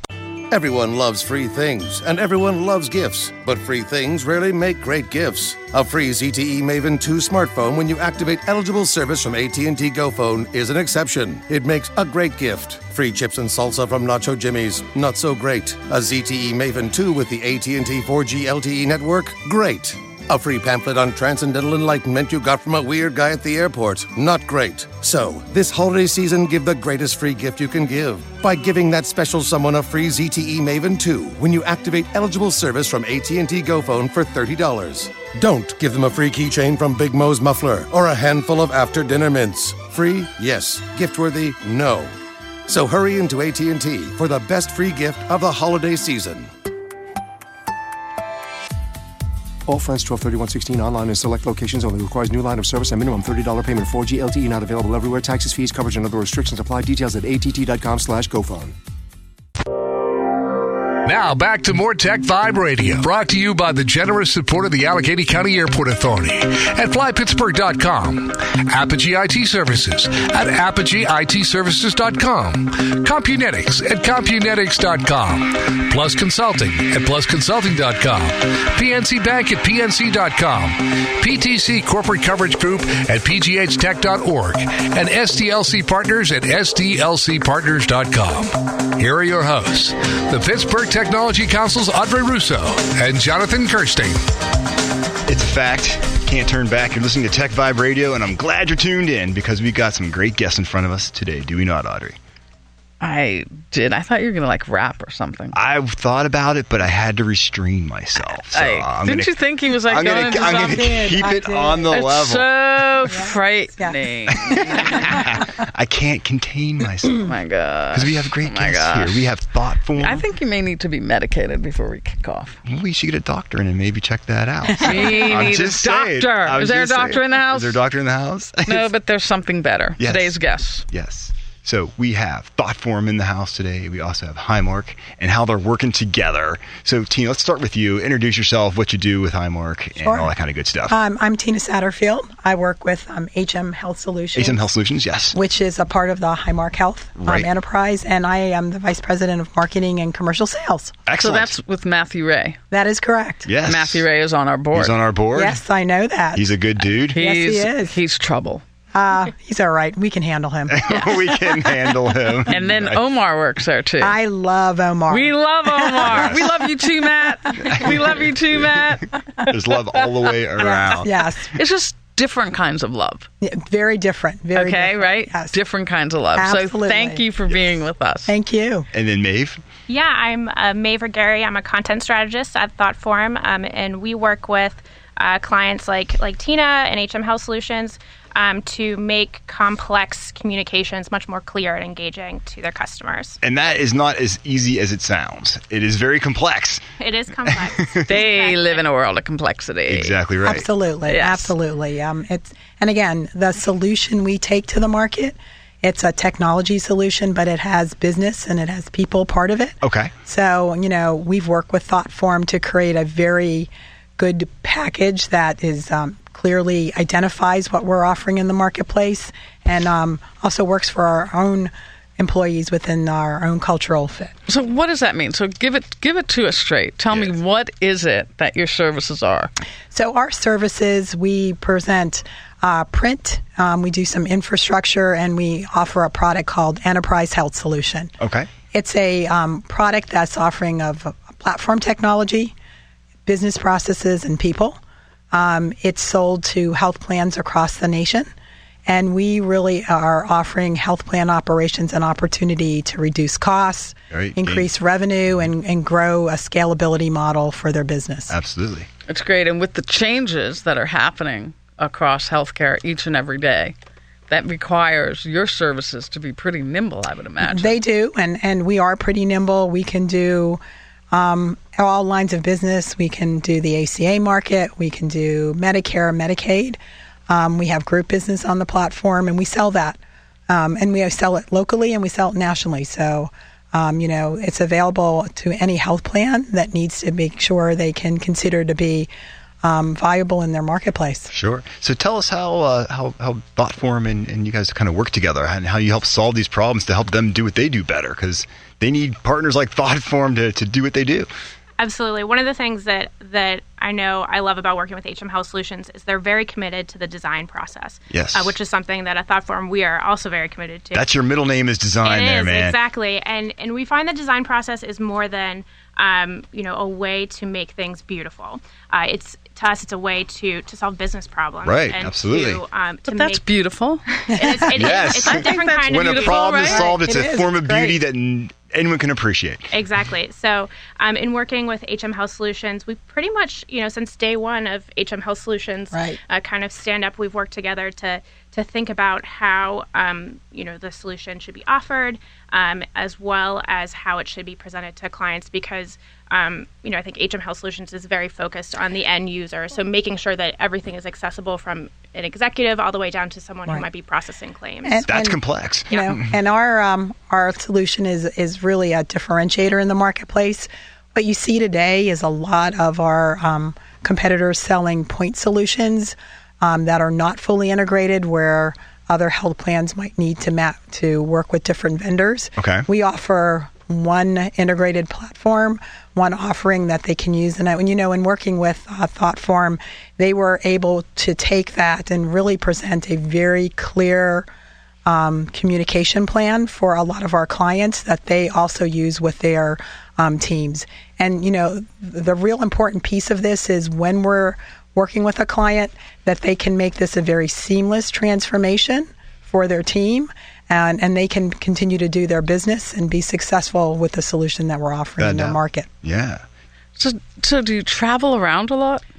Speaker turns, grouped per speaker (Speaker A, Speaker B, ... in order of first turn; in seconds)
Speaker A: 0.5-42.1, 42.7-46.5
Speaker B: 49.7-58.7
Speaker C: 61.0-94.2
Speaker D: 95.3-102.2, 105.5-112.5, 114.3-117.3, 117.9-120.2, 122.7-128.9, 130.0-140.9, 144.4-145.4, 147.2-147.5, 151.1-151.6, 153.5-154.1, 154.7-155.6, 156.3-157.2, 160.7-163.0, 166.0-166.5, 167.8-168.8, 169.5-171.1, 178.9-179.6, 193.4-196.8, 199.9-200.7, 209.8-210.1, 238.2-238.5, 254.1-254.7, 258.3-258.9, 291.3-301.3, 308.1-308.6, 310.9-312.8, 321.6-322.6, 324.7-329.7, 355.1-355.9, 372.6-372.9, 405.2-406.4
Speaker E: 103.0-105.6, 108.3-111.2, 111.9-115.2, 117.2-119.3, 119.9-122.6, 124.8-127.8, 128.7-130.8, 151.2-152.6, 153.6-155.0, 157.1-158.6, 162.5-164.2, 165.1-170.3, 171.4-173.3, 174.5-178.3, 198.1-200.2, 201.1-201.5, 224.5-229.5, 259.1-263.8, 264.3-267.8, 323.1-324.0, 325.2-327.1, 407.0-409.0
Speaker F: 110.1-112.0, 113.1-114.0, 114.5-115.2, 124.9-125.2, 140.0-140.3, 140.9-144.7, 145.3-150.9, 152.7-153.6, 155.3-156.5, 157.1-158.0, 158.9-161.1, 164.0-166.4, 170.6-171.6, 173.4-175.6, 176.4-177.2, 178.3-178.9, 200.4-224.3, 229.9-238.1, 238.7-242.5, 243.3-244.8, 245.3-248.3, 248.9-258.4, 267.4-270.6, 271.1-276.8, 277.3-280.0, 280.5-289.1, 289.6-291.3, 324.3-325.0, 326.6-328.0, 335.9-336.2, 354.8-384.5, 385.1-405.9
Speaker G: 179.9-193.4, 197.0-198.8, 301.8-311.1, 312.0-323.4, 324.3-326.6, 329.7-355.1